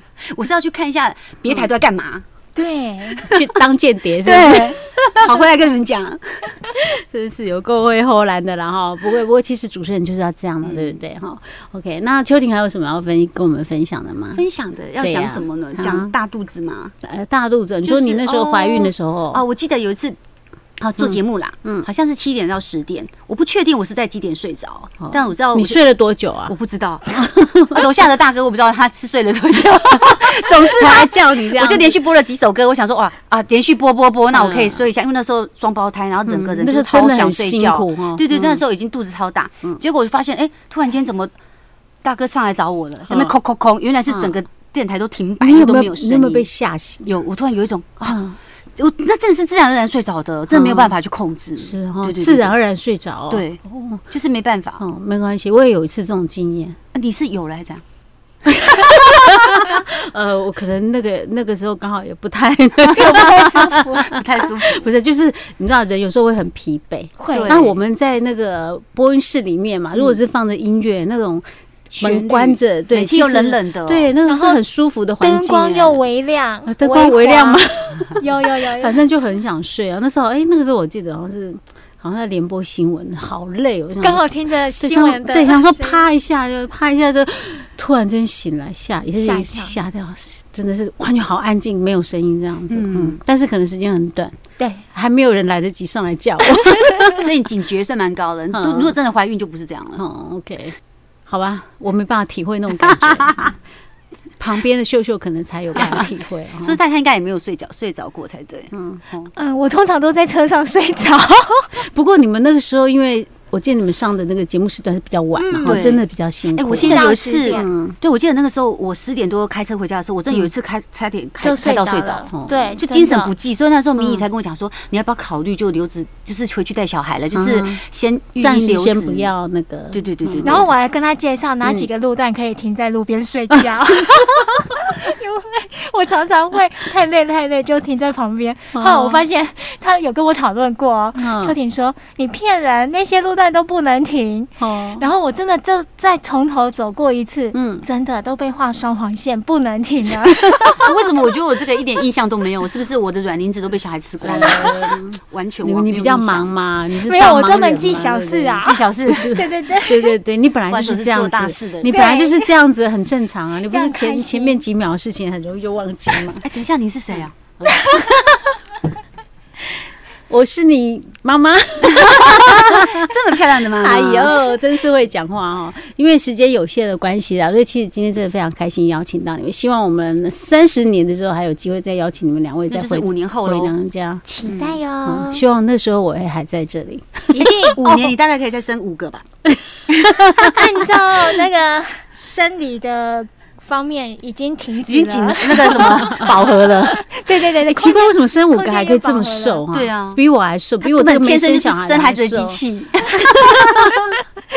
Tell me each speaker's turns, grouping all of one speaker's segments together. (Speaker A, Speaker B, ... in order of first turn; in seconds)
Speaker A: 0.3-2.2, 3.2-3.4, 4.2-6.4, 10.6-11.0, 14.3-16.9, 17.8-20.2, 20.8-25.8, 26.5-41.3, 42.0-46.5, 47.0-48.2, 48.8-52.5, 53.3-54.8, 56.9-57.8, 64.1-64.9, 67.3-67.7, 71.9-74.1, 92.7-93.2, 97.2-100.0, 103.1-103.4, 106.6-109.3, 115.6-129.3, 129.9-130.7, 150.8-156.5, 158.6-159.4, 160.7-161.9, 166.4-167.3, 171.8-174.4, 182.7-183.7, 184.4-184.8, 187.7-189.2, 194.8-196.8, 199.7-200.2, 200.8-203.5
Speaker B: 2.5-3.2, 4.3-4.7, 62.9-64.1, 67.2-67.6, 74.2-74.6, 75.2-79.0, 84.0-86.0, 89.1-89.8, 94.6-94.8, 109.3-111.8, 115.4-115.9, 116.8-117.7, 121.4-123.3, 130.4-150.9, 157.0-160.1, 161.8-162.5, 163.7-164.6, 167.7-168.2, 184.2-185.4, 187.3-187.8, 190.4-199.6
Speaker C: 3.3-5.2, 6.7-14.4, 15.0-16.1, 17.0-19.4, 21.0-21.9, 25.0-26.5, 27.1-27.8, 29.9-32.0, 34.3-34.9, 36.3-38.6, 43.0-43.3, 45.4-47.1, 48.0-48.4, 50.5-51.0, 51.6-54.0, 54.8-56.8, 58.5-71.4, 72.0-76.0, 76.7-78.2, 78.8-84.2, 84.8-94.3, 94.9-97.3, 98.5-98.9, 99.9-100.8, 101.3-103.5, 104.4-106.8, 108.7-109.0, 111.8-117.9, 122.3-122.7, 124.0-124.2, 127.3-127.8, 128.4-130.6, 138.7-139.2, 141.1-141.6, 144.6-145.0, 147.5-147.8, 154.2-166.4, 167.6-168.2, 170.3-173.1, 173.8-184.2, 185.0-188.0, 189.8-190.5, 195.8-197.0, 197.6-202.6, 203.1-204.0